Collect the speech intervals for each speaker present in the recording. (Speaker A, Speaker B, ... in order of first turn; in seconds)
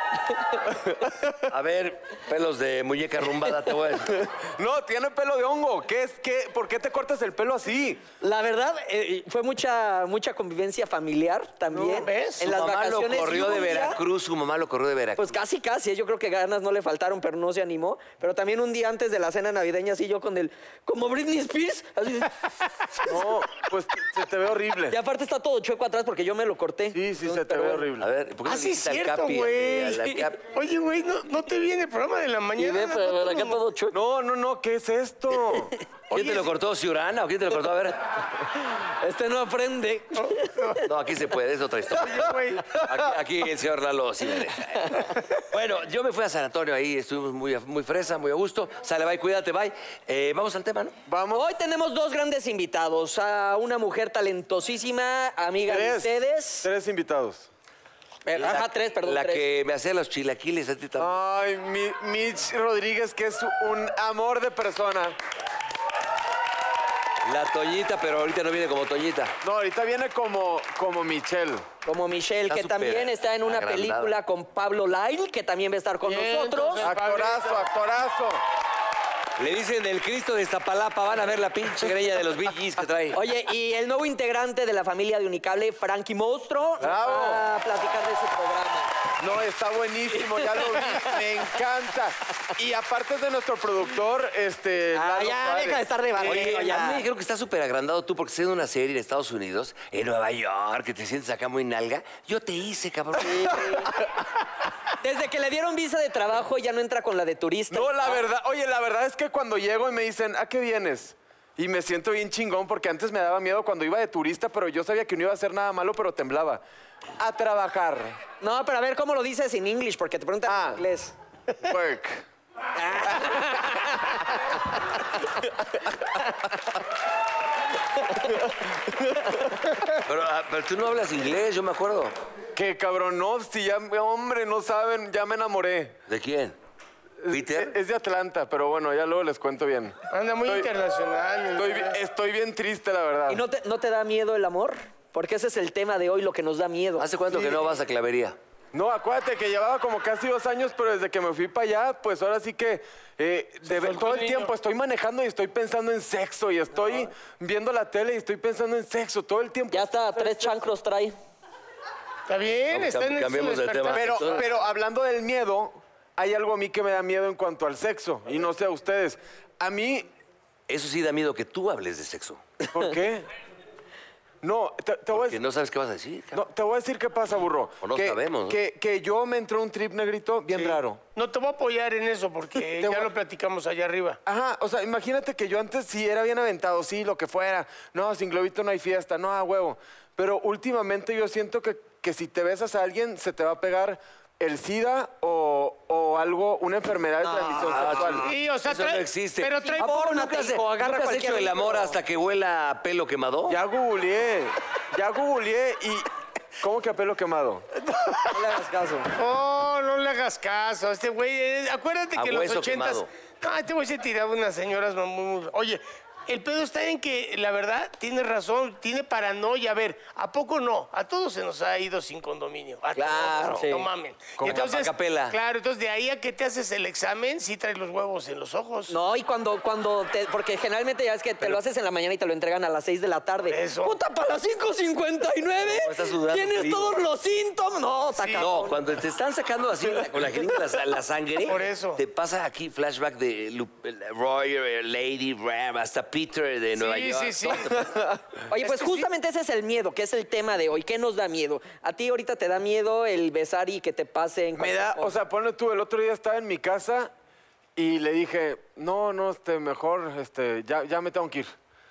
Speaker A: 0.3-0.7, 8.2-14.0, 15.2-23.1, 24.9-27.9, 32.6-34.0, 38.7-40.6, 44.8-45.1, 51.3-56.7, 58.3-59.4, 71.8-76.9, 83.1-88.9, 90.1-91.2, 95.0-97.0, 103.2-103.9, 105.0-108.2, 118.4-121.1, 122.8-124.2, 143.3-147.1, 159.7-161.1, 197.2-198.2, 199.6-201.9, 208.3-209.1, 223.0-223.9, 228.9-238.8, 248.5-255.2
Speaker B: 0.8-1.4, 4.4-8.0, 11.8-12.1, 23.0-25.0, 26.9-28.1, 33.9-35.8, 42.8-43.1, 51.1-51.5, 55.7-57.5, 61.0-65.2, 69.4-71.7, 76.8-78.4, 86.8-87.5, 89.2-96.6, 107.7-116.6, 117.2-118.2, 120.5-120.8, 121.6-122.2, 123.0-123.9, 132.6-136.0, 137.2-140.7, 141.6-143.4, 147.3-147.6, 148.7-160.6, 163.9-170.1, 172.6-173.2, 174.4-175.4, 176.3-181.0, 182.8-183.1, 184.3-198.3, 203.5-206.1, 206.6-207.6, 247.8-248.4, 254.6-257.1, 257.8-261.5
Speaker C: 1.5-4.3, 12.4-15.4, 28.0-30.4, 36.1-38.0, 40.8-51.0, 58.4-61.1, 67.2-69.4, 72.5-74.2, 79.4-83.2, 96.2-103.9, 129.9-132.1, 136.1-136.6, 137.3-137.7, 147.0-148.4, 162.7-164.4, 170.7-172.4, 175.1-176.4, 177.8-178.6, 197.6-203.6, 212.2-213.1, 223.0-223.7, 224.4-225.4, 235.6-237.0, 238.4-248.0
Speaker D: 11.8-12.4, 28.4-33.6, 36.1-36.5, 40.1-40.8, 42.0-42.8, 76.0-77.7, 140.1-142.0, 153.7-154.5, 162.3-164.5, 180.5-184.2, 198.2-199.9, 209.2-228.9, 233.5-234.0, 238.2-238.4, 241.4-242.0, 246.8-247.8, 248.6-249.1